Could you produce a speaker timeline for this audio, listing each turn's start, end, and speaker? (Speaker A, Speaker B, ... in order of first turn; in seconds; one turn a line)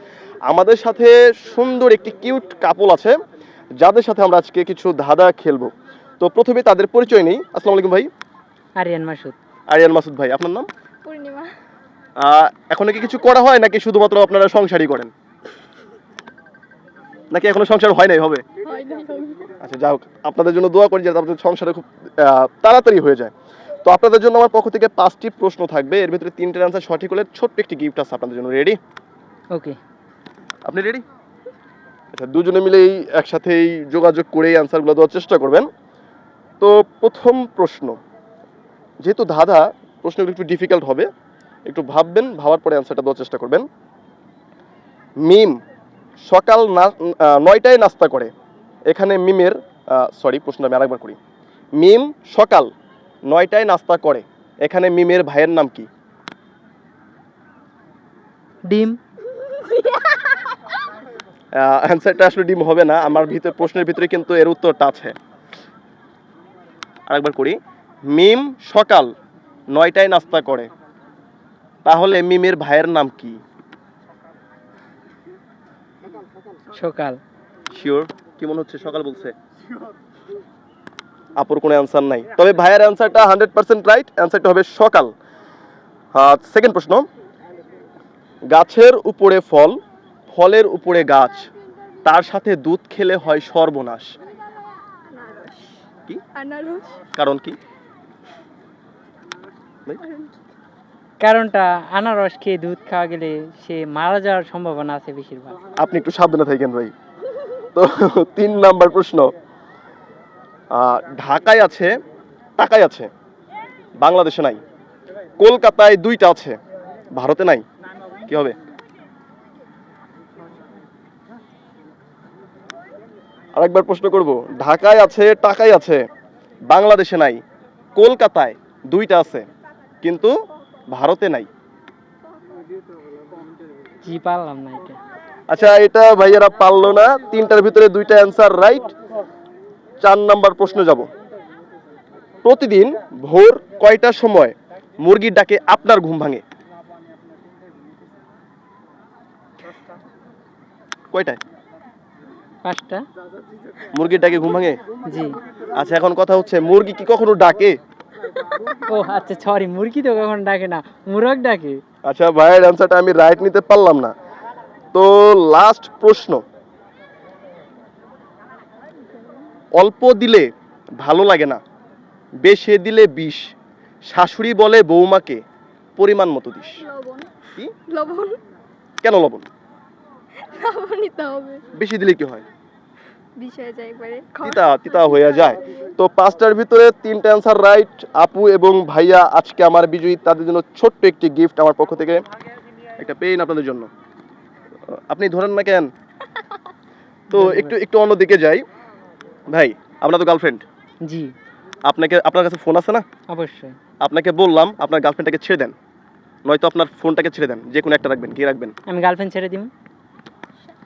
Speaker A: 0.5-3.2
Speaker A: 3.8-8.1
Speaker B: 8.8-9.3
Speaker A: 9.7-10.7
Speaker C: 11.0-11.5
Speaker A: 12.2-15.1
Speaker A: 17.3-18.4
Speaker C: 18.6-19.5
Speaker A: 19.6-23.3
Speaker A: 23.8-28.8
Speaker B: 29.5-29.8
Speaker A: 30.6-31.0
Speaker A: 32.1-35.7
Speaker A: 36.6-38.0
Speaker A: 39.0-41.1
Speaker A: 41.6-43.7
Speaker A: 45.2-45.6
Speaker A: 46.2-48.3
Speaker A: 48.9-51.2
Speaker A: 51.8-52.7
Speaker A: 53.3-55.9
Speaker B: 58.7-59.0
Speaker C: 59.3-60.5
Speaker A: 61.5-65.2
Speaker A: 67.1-69.1
Speaker A: 69.7-70.7
Speaker A: 71.8-73.4
Speaker B: 76.7-77.2
Speaker A: 77.7-79.3
Speaker A: 81.3-85.1
Speaker A: 86.1-87.0
Speaker A: 88.5-89.8
Speaker A: 90.3-91.5
Speaker A: 92.0-94.1
Speaker C: 95.1-95.8
Speaker C: 96.3-97.0
Speaker A: 97.1-97.6
Speaker B: 101.2-105.6
Speaker A: 105.8-106.9
Speaker A: 107.7-109.3
Speaker A: 110.7-111.9
Speaker A: 112.6-113.1
Speaker A: 114.0-114.6
Speaker A: 115.4-116.6
Speaker A: 117.1-117.6
Speaker A: 118.3-118.5
Speaker A: 123.5-126.1
Speaker A: 126.7-127.4
Speaker A: 128.0-129.4
Speaker A: 130.0-130.3
Speaker A: 130.9-131.5
Speaker B: 134.0-135.0
Speaker A: 135.5-138.9
Speaker A: 140.0-141.1
Speaker A: 142.4-146.4
Speaker A: 151.1-151.4
Speaker B: 152.6-153.0
Speaker A: 153.9-154.8
Speaker B: 155.1-155.4
Speaker A: 155.7-157.8
Speaker B: 158.9-161.8
Speaker A: 162.0-164.1
Speaker A: 164.9-166.4
Speaker A: 169.7-171.6
Speaker A: 172.4-173.5
Speaker A: 174.1-175.4
Speaker A: 176.0-176.8
Speaker C: 176.8-177.3
Speaker C: 177.9-178.4
Speaker A: 179.0-179.5
Speaker C: 180.4-181.6
Speaker A: 181.7-182.4
Speaker C: 183.4-185.6
Speaker A: 184.4-192.2
Speaker A: 193.0-193.9
Speaker A: 194.9-195.9
Speaker B: 197.3-197.8
Speaker A: 197.3-198.6
Speaker A: 199.5-200.6
Speaker B: 201.0-201.3
Speaker A: 201.8-203.0
Speaker B: 203.3-203.7
Speaker A: 204.0-205.7
Speaker A: 206.4-208.8
Speaker B: 208.9-209.7